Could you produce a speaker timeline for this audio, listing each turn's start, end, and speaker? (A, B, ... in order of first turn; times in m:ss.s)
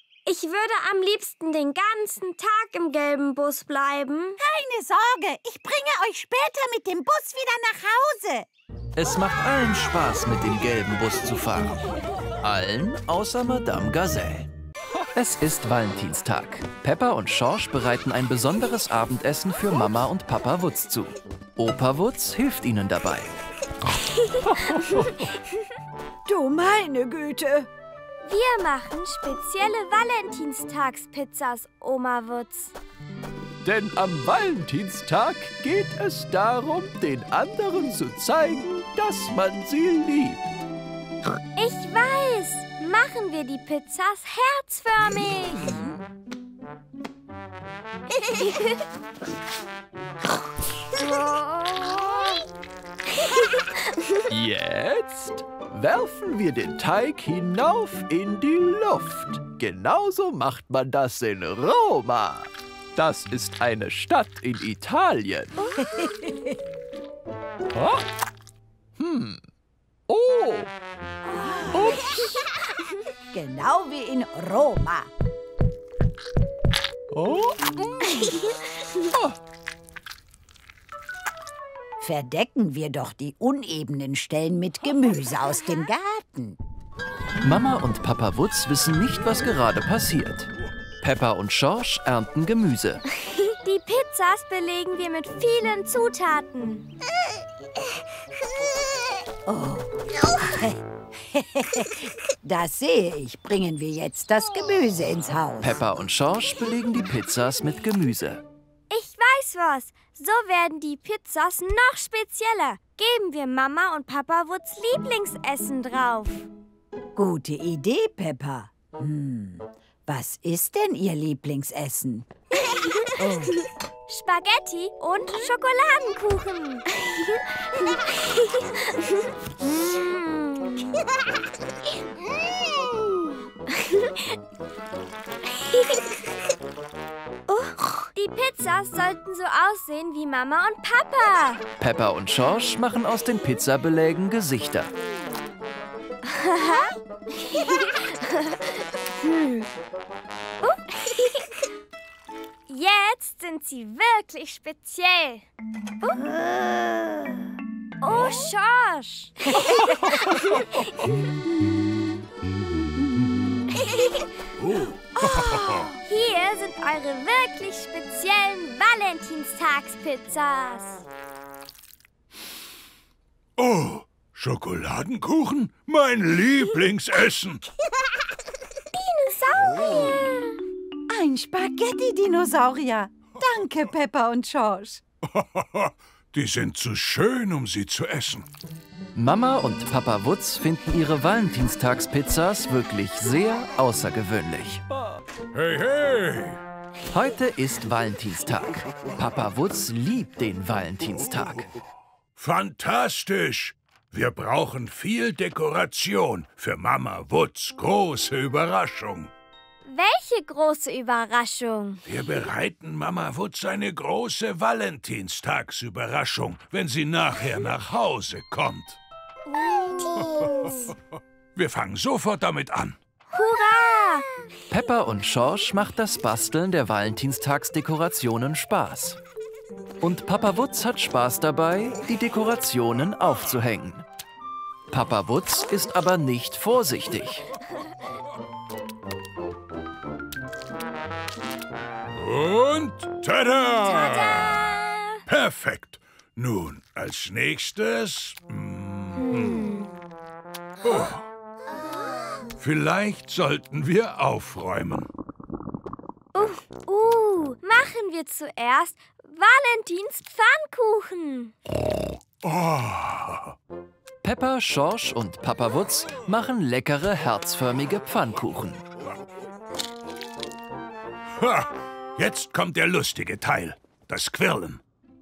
0:00.3-0:04.4 A
0:04.4-0:08.5 B
0:09.0-0:11.8 C
0:12.4-0:14.5 C
0:15.0-0:23.3 C
0:24.4-0:25.2 C
0:26.3-0:27.7 B
0:28.2-0:32.8 A
0:33.6-0:40.5 C
0:41.6-0:45.8 A
0:45.1-0:46.0 B
0:51.0-0:52.4 A
0:54.3-1:05.5 C
1:05.8-1:06.6 B
1:07.7-1:08.0 C
1:09.0-1:09.4 C
1:10.1-1:10.7 C
1:11.4-1:12.2 B
1:11.7-1:12.1 C
1:13.3-1:15.1 B
1:17.1-1:17.7 C
1:19.1-1:19.4 C
1:22.0-1:26.6 B
1:27.4-1:30.5 C
1:31.0-1:33.0 C
1:33.5-1:36.9 A
1:39.5-1:40.8 B
1:41.3-1:45.8 B
1:45.6-1:48.4 C
1:48.9-1:56.5 A
1:57.2-2:02.3 B
2:02.7-2:03.1 A
2:03.2-2:03.6 B
2:04.1-2:06.9 A
2:07.8-2:09.2 A
2:09.8-2:10.9 A
2:17.5-2:21.6 A
2:21.8-2:24.9 C
2:26.3-2:28.7 A
2:29.2-2:29.7 A
2:30.6-2:31.5 A
2:32.7-2:35.5 A
2:38.0-2:39.6 A
2:39.5-2:40.6 B
2:40.2-2:40.6 A
2:43.8-2:44.3 A
2:44.6-2:45.9 D
2:46.1-2:51.0 A
2:53.6-2:57.7 D
2:58.9-3:00.5 A
3:01.1-3:05.0 B
3:05.3-3:08.5 D
3:09.1-3:14.8 C
3:15.5-3:16.6 D
3:17.1-3:21.7 C
3:22.4-3:29.3 D
3:29.9-3:32.0 A
3:32.1-3:39.0 D
3:39.6-3:40.8 A
3:40.3-3:41.0 D
3:41.6-3:43.0 D
3:43.3-3:44.3 A
3:44.7-3:49.2 C
3:50.0-3:54.0 C
3:54.9-3:57.4 C
4:02.2-4:04.6 D
4:03.8-4:05.2 A
4:05.3-4:09.7 D
4:09.2-4:09.9 A
4:10.8-4:11.2 D
4:12.6-4:15.1 D
4:16.3-4:21.5 A
4:22.4-4:23.5 D
4:24.2-4:28.8 C
4:31.4-4:34.8 D